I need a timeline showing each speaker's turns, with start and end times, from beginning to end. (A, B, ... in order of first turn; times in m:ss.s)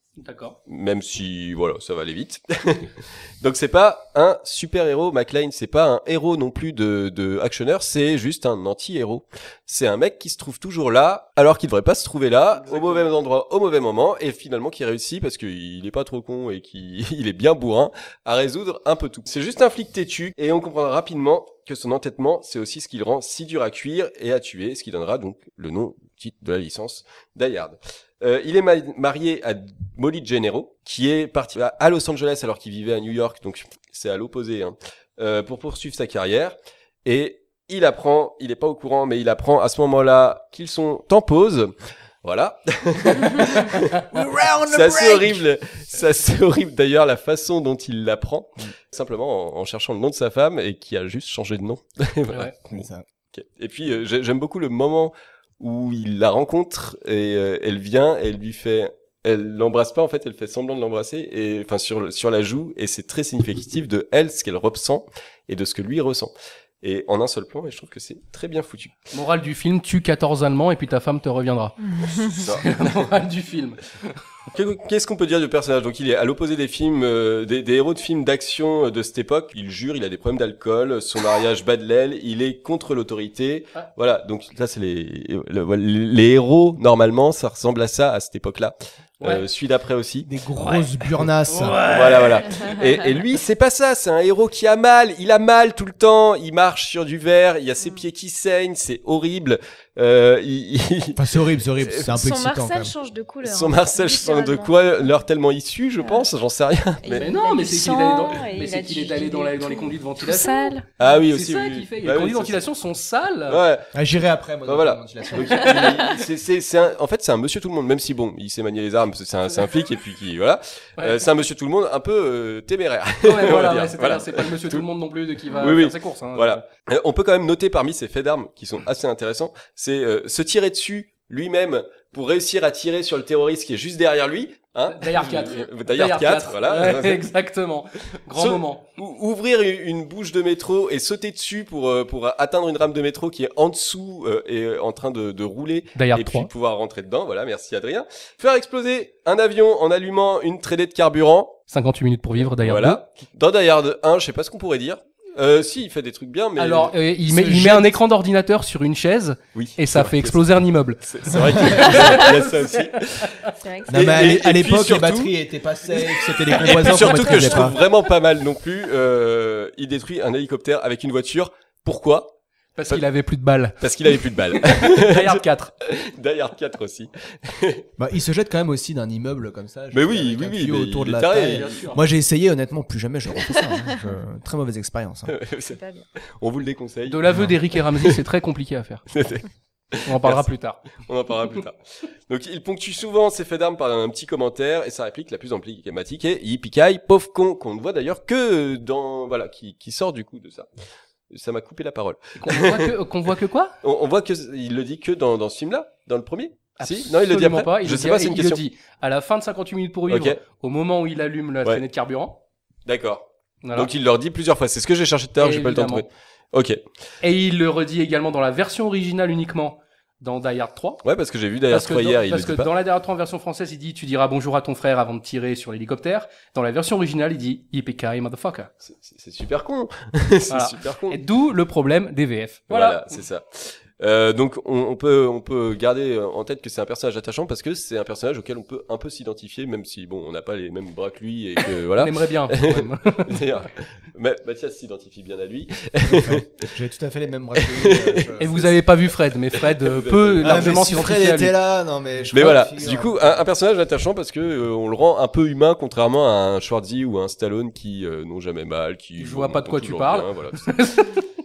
0:00.2-0:00.6 A
0:00.7-0:43.9 B
0:12.6-0:13.1 A
0:44.1-0:45.4 C
0:44.7-1:09.0 B
0:52.7-0:53.0 C
1:09.1-1:11.8 A
1:11.9-1:12.3 D
1:12.1-1:12.6 B
1:12.4-1:13.8 A
1:14.5-1:30.3 B
1:30.3-1:31.8 C
1:30.5-1:32.6 A
1:31.8-1:41.2 B
1:41.2-1:42.9 C
1:41.8-1:42.0 B
1:42.1-1:44.7 D
1:43.4-1:47.2 B
1:47.0-1:50.8 D
1:47.2-1:53.6 A
1:51.0-1:52.6 B
1:53.5-1:53.9 B
1:53.9-1:55.9 C
1:54.6-2:04.8 B
2:03.2-2:06.6 A
2:05.6-2:17.3 B
2:14.9-2:18.8 A
2:18.3-2:31.6 B
2:26.0-2:26.5 A
2:31.7-2:33.0 A
2:32.4-2:36.9 B
2:36.6-2:43.5 A
2:37.3-2:38.0 C
2:39.5-2:40.4 B
2:41.0-2:43.3 B
2:43.6-2:44.2 D
2:43.9-2:47.8 C
2:43.9-2:45.3 B
2:46.5-2:47.8 A
2:46.6-2:52.3 B
2:52.8-2:55.7 A
2:53.8-2:57.8 B
2:58.0-3:05.3 C
2:59.9-3:01.9 B
3:01.4-3:02.0 A
3:05.3-3:05.8 B
3:05.7-3:06.0 D
3:06.4-3:07.4 B
3:07.1-3:09.0 A
3:07.3-3:07.5 C
3:09.1-3:11.8 B
3:10.1-3:11.0 A
3:12.3-3:20.7 B
3:21.3-3:22.9 B
3:22.4-3:23.7 A
3:23.8-3:28.6 B
3:26.8-3:32.4 A
3:30.1-3:30.4 B
3:32.8-3:36.8 B
3:33.6-3:33.9 A
3:35.4-3:36.0 A
3:37.2-3:41.0 A
3:41.0-3:42.7 B
3:41.7-3:48.7 A
3:48.8-3:51.2 B
3:50.5-3:53.2 A
3:52.7-4:06.4 B
4:02.0-4:03.4 A
4:06.0-4:08.8 C
4:07.6-4:08.2 B
4:08.4-4:11.5 A
4:09.8-4:11.0 B
4:10.4-4:13.2 C
4:12.3-4:20.7 B
4:19.2-4:21.2 A